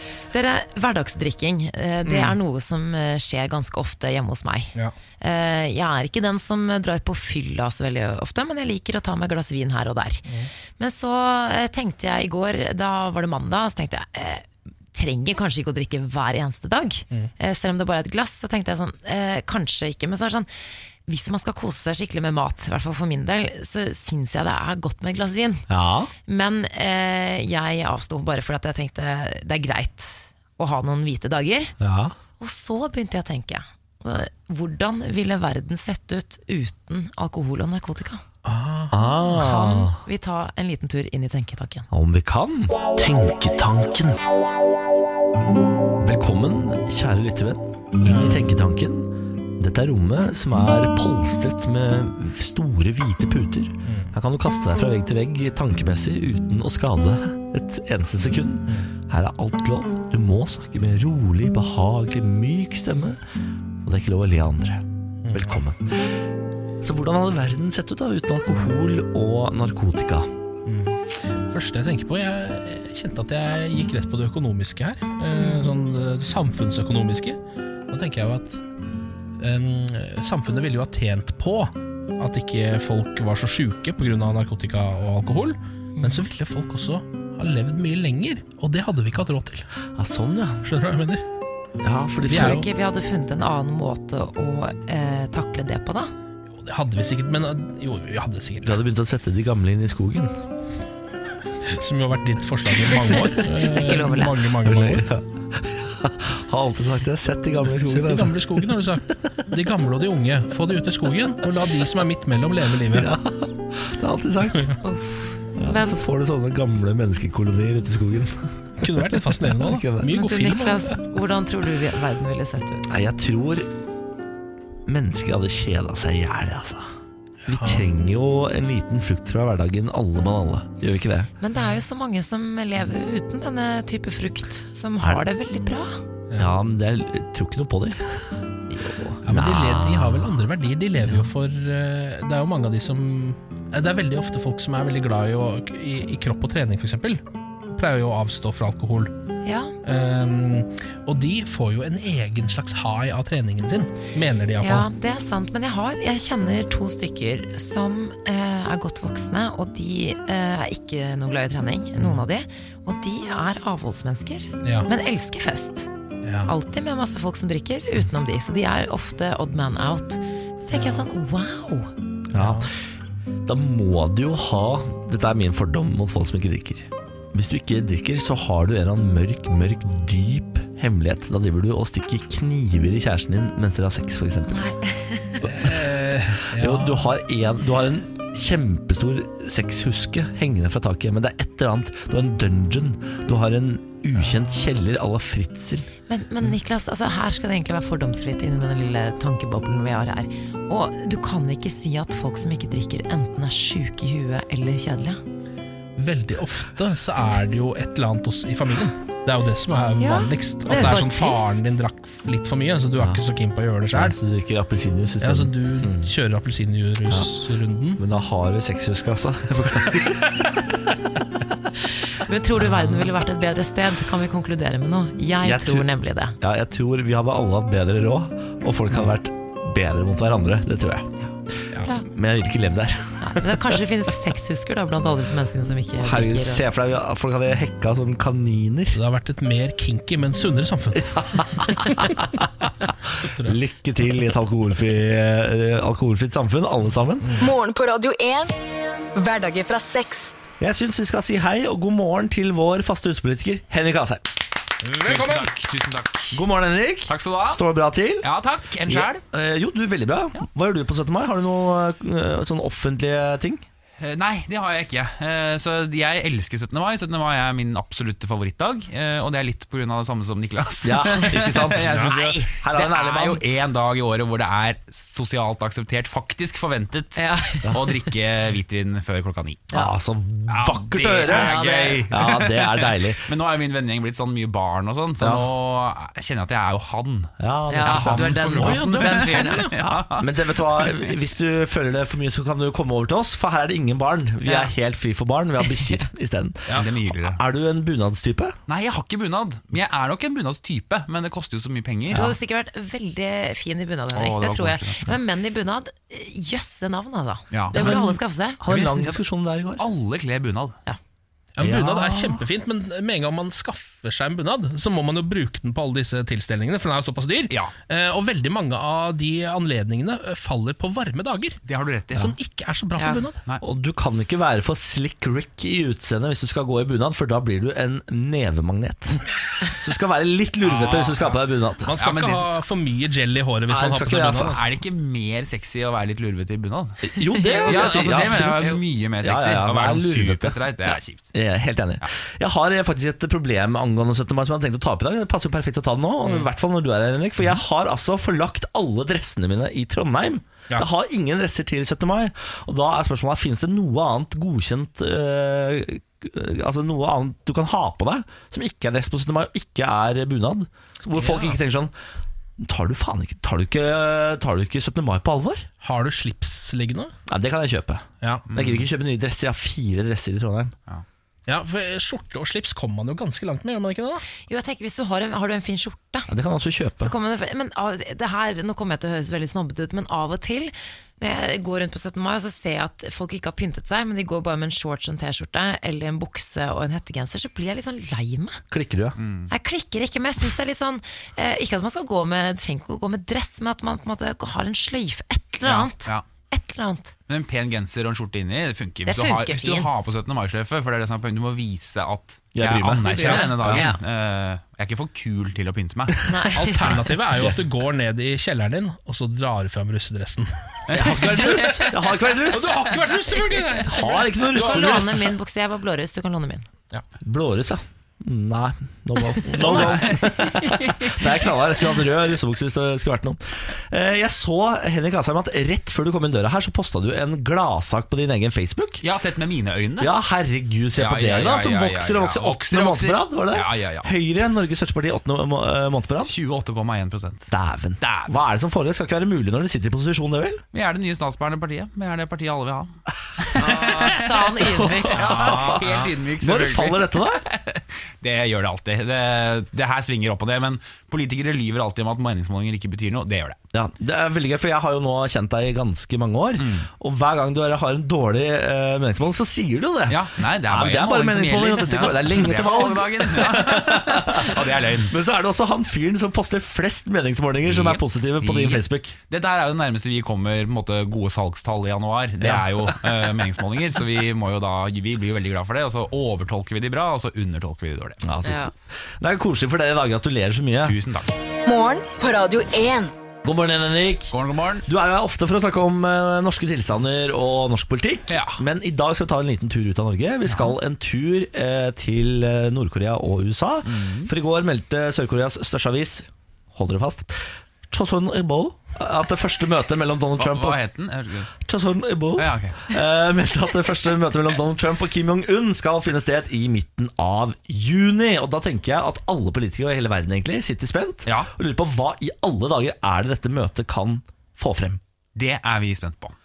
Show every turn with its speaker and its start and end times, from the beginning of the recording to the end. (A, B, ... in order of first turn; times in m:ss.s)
0:00.3-0:10.3 A
0:02.1-0:02.4 B
0:10.8-0:20.5 A
0:21.1-0:25.7 A
0:25.7-0:26.1 C
0:26.2-0:31.8 A
0:31.8-0:32.2 C
0:32.4-0:38.2 A
0:38.4-0:38.9 B
0:38.9-0:40.0 C
0:39.3-0:41.9 A
0:41.9-0:44.2 C
0:46.0-1:03.2 C
0:48.0-0:48.4 B
0:53.8-0:54.1 B
1:03.8-1:06.0 C
1:06.8-1:10.3 C
1:10.7-1:18.6 B
1:15.4-1:15.7 A
1:19.4-1:29.7 B
1:26.0-1:26.3 A
1:30.0-1:30.6 C
1:30.6-1:31.2 B
1:31.8-1:32.6 C
1:32.3-1:32.7 B
1:32.3-1:36.1 A
1:36.6-1:38.8 B
1:38.6-1:40.4 C
1:41.7-1:45.1 B
1:43.3-1:44.5 A
1:44.6-1:48.8 C
1:47.7-1:53.1 B
1:52.9-1:54.7 C
1:54.8-1:56.0 A
1:55.6-2:00.1 C
1:58.8-2:01.0 B
2:00.1-2:03.0 A
2:02.9-2:03.7 C
2:04.9-2:06.9 C
2:07.5-2:07.9 B
2:07.5-2:11.3 C
2:11.4-2:16.0 A
2:16.4-2:18.2 C
2:18.7-2:19.2 A
2:19.2-2:27.2 B
2:19.3-2:20.4 C
2:27.7-2:29.1 B
2:29.4-2:29.7 A
2:29.8-2:34.9 B
2:34.6-2:45.9 A
2:44.6-2:44.9 B
2:46.2-2:46.5 B
2:46.4-2:51.9 A
2:50.7-2:51.0 B
2:52.3-2:52.7 C
2:52.4-2:52.7 B
2:53.4-3:04.7 C
3:04.5-3:05.5 A
3:05.4-3:05.8 C
3:05.5-3:07.1 B
3:06.4-3:15.9 C
3:14.2-3:14.6 B
3:16.1-3:25.2 A
3:26.0-3:34.2 B
3:30.0-3:31.6 A
3:33.9-3:36.1 C
3:35.2-3:38.0 B
3:38.0-3:40.3 C
3:42.2-3:46.4 A
3:45.4-3:45.9 C
3:46.4-3:51.1 C
3:51.8-3:52.1 A
3:52.1-3:53.8 C
3:53.2-3:56.6 A
3:56.0-3:59.0 C
3:58.9-4:02.4 B
4:01.0-4:07.4 C
4:03.2-4:03.6 B
4:07.2-4:07.5 B
4:07.4-4:08.6 D
4:09.2-4:10.4 D
4:10.6-4:14.3 C
4:14.8-4:15.5 B
4:15.0-4:16.4 E
4:16.3-4:18.3 C
4:17.1-4:17.6 E
4:18.2-4:19.2 E
4:18.9-4:23.6 C
4:24.0-4:39.8 E
4:30.8-4:33.4 C
4:37.2-4:38.0 A
4:39.7-4:41.6 C
4:40.5-4:51.1 E
4:41.3-4:42.3 A
4:42.1-4:43.3 C
4:45.2-4:45.5 C
4:47.4-4:48.4 C
4:47.7-4:49.7 A
4:48.6-4:49.8 B
4:49.8-4:58.6 C
4:56.7-4:57.4 E
4:58.7-5:02.3 E
5:02.1-5:08.6 A
5:04.1-5:05.1 E
5:07.5-5:08.0 E
5:07.7-5:09.8 C
5:08.7-5:09.2 E
5:09.8-5:10.8 E
5:11.6-5:21.6 B
5:11.6-5:12.4 C
5:21.7-5:22.3 E
5:22.2-5:23.4 B
5:23.0-5:23.3 A
5:23.6-5:31.9 C
5:30.6-5:34.6 B
5:32.0-5:32.5 E
5:33.7-5:34.6 C
5:34.4-5:37.1 E
5:37.0-6:01.9 C
5:37.4-5:38.0 A
5:37.6-5:41.3 E
6:01.2-6:01.5 E
6:02.6-6:05.7 C
6:05.8-6:07.1 B
6:07.3-6:10.7 C
6:08.5-6:08.9 E
6:11.5-6:14.2 B
6:14.5-6:16.3 A
6:16.3-6:17.1 C
6:17.0-6:28.6 A
6:28.7-6:29.2 C
6:29.2-6:29.5 E
6:29.5-6:37.2 A
6:35.6-6:36.2 E
6:37.3-6:46.4 E
6:39.0-6:40.1 A
6:42.6-6:43.8 C
6:43.1-6:43.5 B
6:43.2-6:44.0 A
6:46.3-6:47.2 A
6:46.5-6:51.9 B
6:50.9-6:52.2 E
6:50.9-6:52.8 C
6:52.5-6:55.3 B
6:53.8-6:55.2 C
6:54.5-6:56.7 A
6:57.2-7:09.0 C
6:59.4-7:00.3 B
6:59.6-7:01.5 E
7:09.0-7:10.1 E
7:10.0-7:16.3 C
7:10.9-7:14.1 E
7:16.2-7:18.4 E
7:17.5-7:20.6 C
7:20.7-7:33.6 E
7:23.6-7:25.8 A
7:23.6-7:24.1 C
7:24.8-7:25.8 C
7:26.4-7:27.4 C
7:33.7-7:44.6 C
7:36.6-7:36.9 E
7:40.1-7:45.1 E
7:45.1-7:49.2 C
7:47.6-7:58.2 E
7:52.4-7:53.1 C
7:58.2-8:01.0 C
7:58.4-7:58.7 A
8:00.8-8:01.3 E
8:01.7-8:03.1 D
8:03.4-8:04.3 C
8:04.3-8:04.9 E
8:04.9-8:20.8 C
8:08.3-8:08.6 E
8:10.5-8:10.8 E
8:13.8-8:14.3 E
8:20.4-8:21.5 E
8:21.6-8:35.0 C
8:22.4-8:22.9 E
8:31.3-8:31.5 E
8:35.4-8:36.4 E